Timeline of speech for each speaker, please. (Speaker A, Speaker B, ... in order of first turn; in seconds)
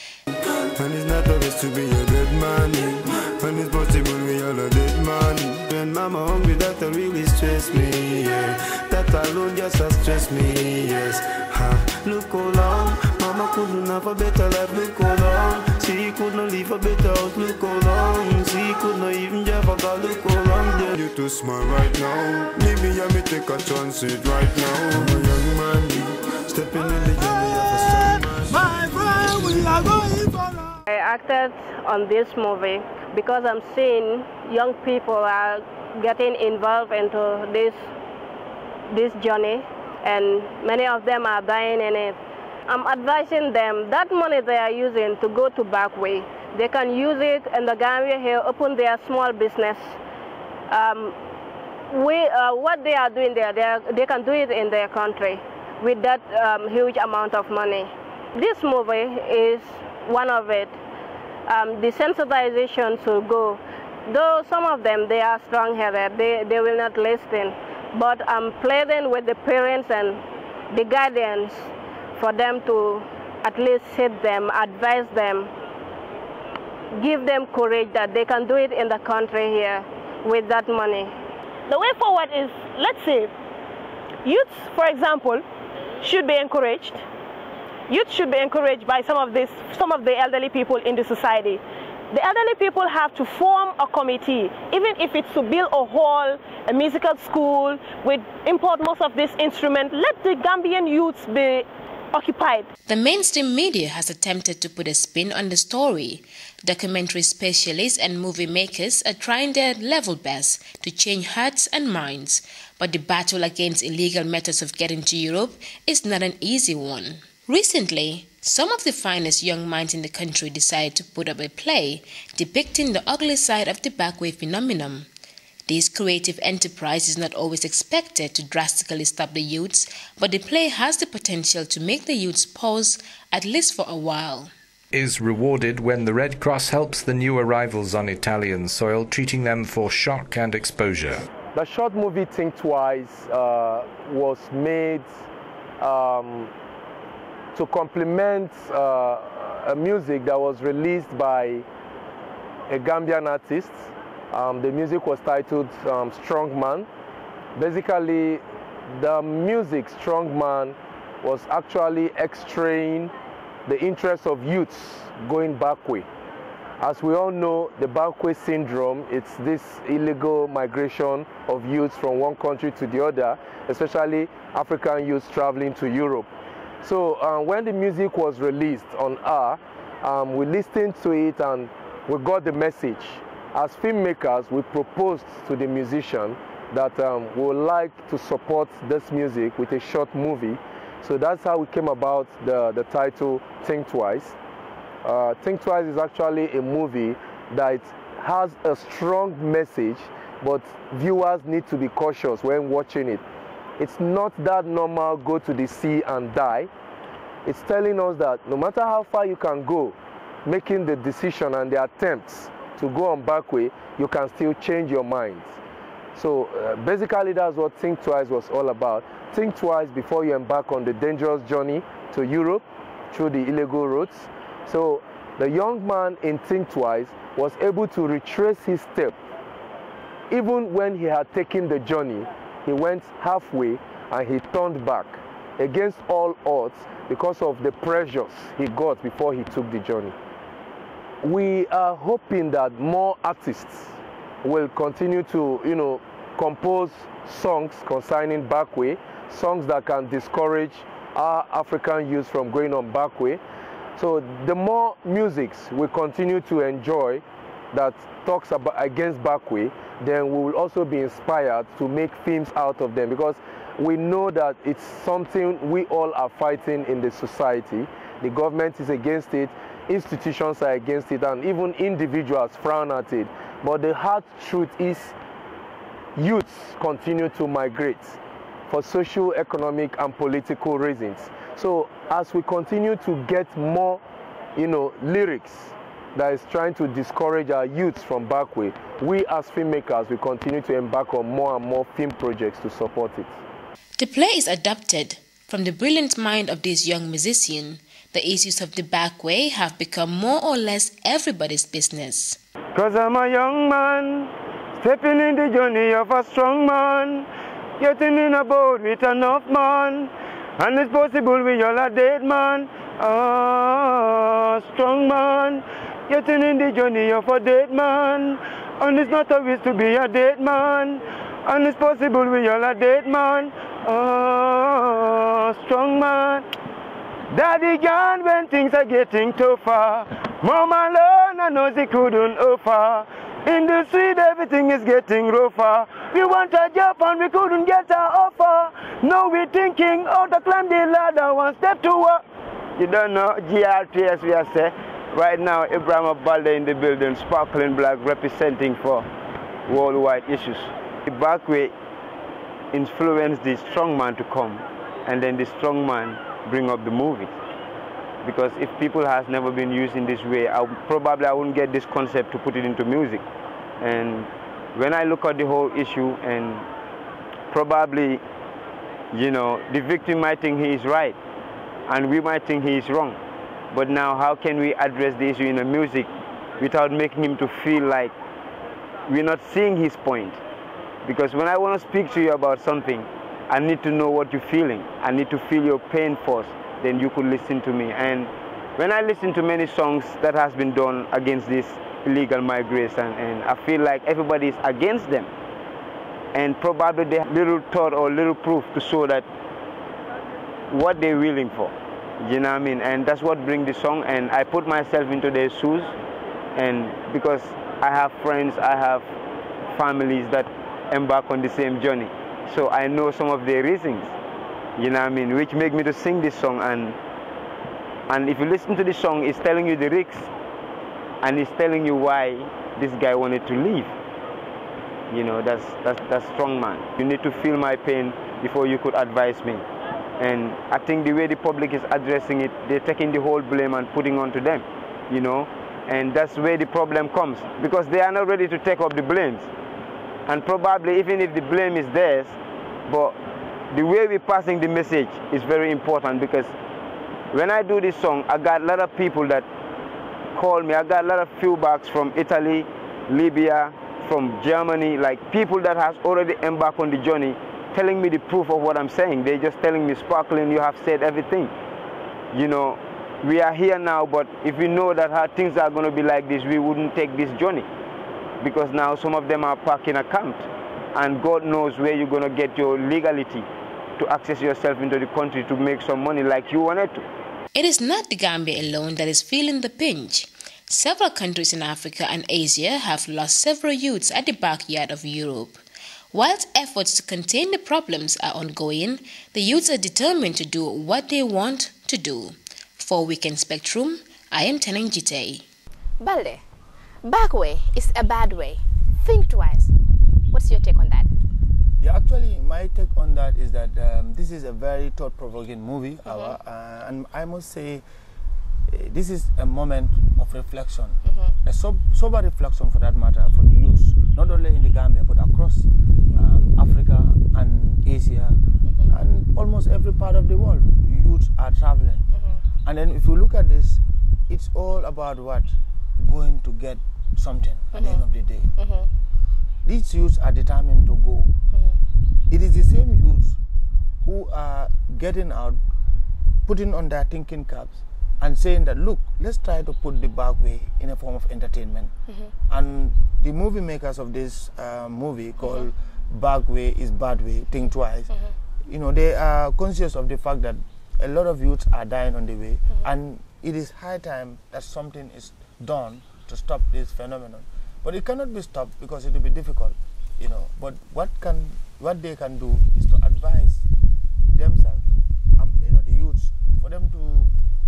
Speaker A: 0.7-29.5
Speaker B: 30.9-37.8, 38.9-42.2, 42.7-49.9, 50.7-51.1, 51.9-60.8, 61.5-70.2, 70.7-75.5, 77.0-81.1
Speaker C: 81.7-83.3, 84.2-85.4, 86.0-87.0, 87.9-102.7
Speaker D: 102.9-125.1, 125.7-134.5, 294.0-302.4, 477.6-485.6, 486.1-495.4
Speaker E: 134.9-141.2
Speaker F: 141.5-145.1, 145.8-146.5, 147.5-151.6, 152.7-156.9, 157.6-163.1, 163.7-166.1, 166.8-176.3, 176.8-194.3, 195.0-203.2, 203.8-206.7, 207.4-215.6, 216.1-229.2, 230.3-240.1, 241.2-253.4, 253.9-275.1, 276.1-278.2, 278.7-284.0, 284.6-293.4
Speaker G: 302.7-307.2, 307.8-326.4, 327.3-342.2, 342.8-349.1, 349.7-351.7, 352.7-357.3, 358.2-363.2, 363.8-366.6, 367.5-368.2, 369.1-371.1, 371.9-373.2, 373.7-376.1, 376.6-378.1, 379.1-380.4, 381.0-395.3, 396.3-399.2, 400.7-405.9, 406.6-409.1, 409.7-414.1, 414.8-416.9, 418.1-420.3, 421.2-423.9, 425.1-429.6, 430.2-439.5, 440.3-442.4, 442.9-443.1, 443.7-446.5, 447.3-449.5, 450.3-461.5, 462.3-467.7, 468.4-473.5, 474.0-477.1
Speaker H: 496.0-496.4, 497.0-499.7, 500.3-501.1, 506.1-506.4, 511.1-511.3, 522.1-522.4, 527.7-528.9, 531.5-531.8, 542.1-542.3, 545.4-545.7
Speaker I: 501.8-507.8, 508.7-518.4, 518.9-522.0, 522.6-528.5, 529.6-531.3, 532.3-533.4, 534.0-535.6, 536.5-541.9, 542.5-548.1, 548.7-563.6, 564.3-567.3